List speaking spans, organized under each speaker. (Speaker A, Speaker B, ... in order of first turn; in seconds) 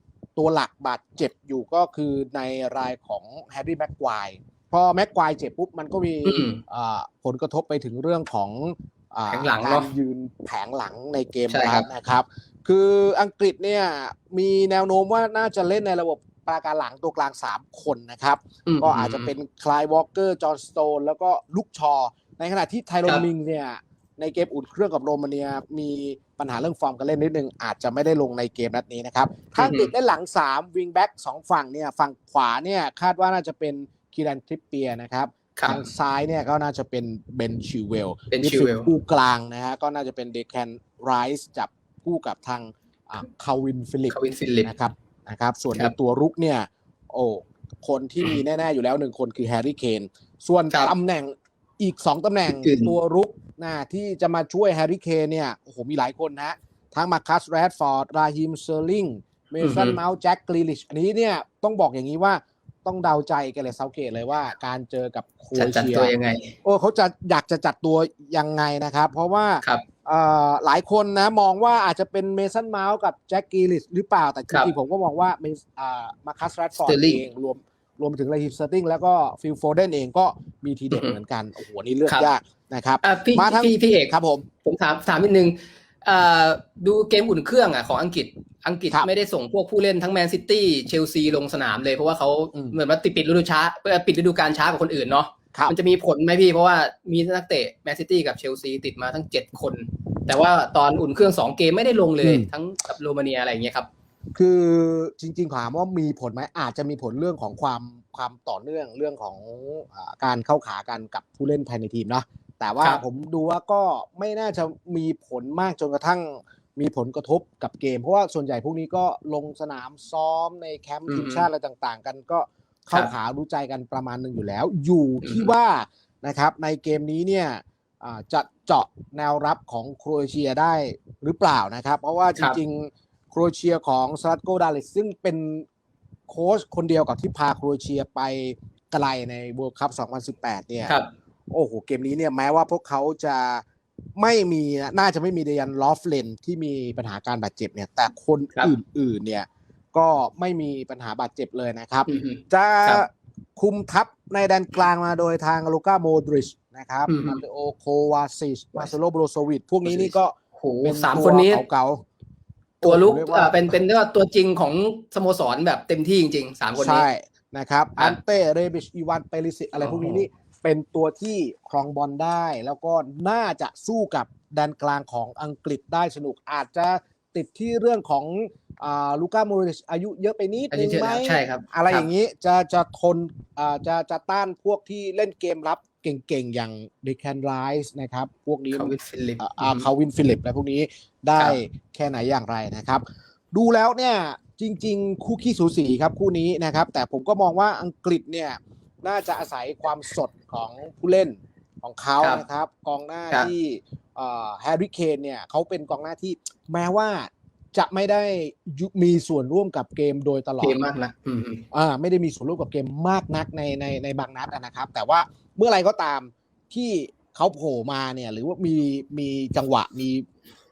Speaker A: 0.3-84.5, 92.5-92.8, 102.2-102.5, 104.3-135.7, 136.3-140.9, 141.5-143.6, 144.2-162.0, 162.8-163.8, 166.7-210.8, 211.7-220.2
Speaker B: 6.2-6.6, 9.3-9.9, 11.5-11.9, 18.7-19.3, 29.6-29.9, 35.6-35.8, 38.3-38.9, 44.1-44.7, 52.5-52.9, 59.6-60.0, 65.5-66.5, 76.8-77.2, 83.0-84.1, 84.6-103.9, 121.1-121.5, 125.2-125.5, 152.1-153.0, 157.1-157.4, 159.8-161.6, 162.8-167.1, 169.8-170.2, 180.7-182.1, 188.7-189.9, 210.6-211.6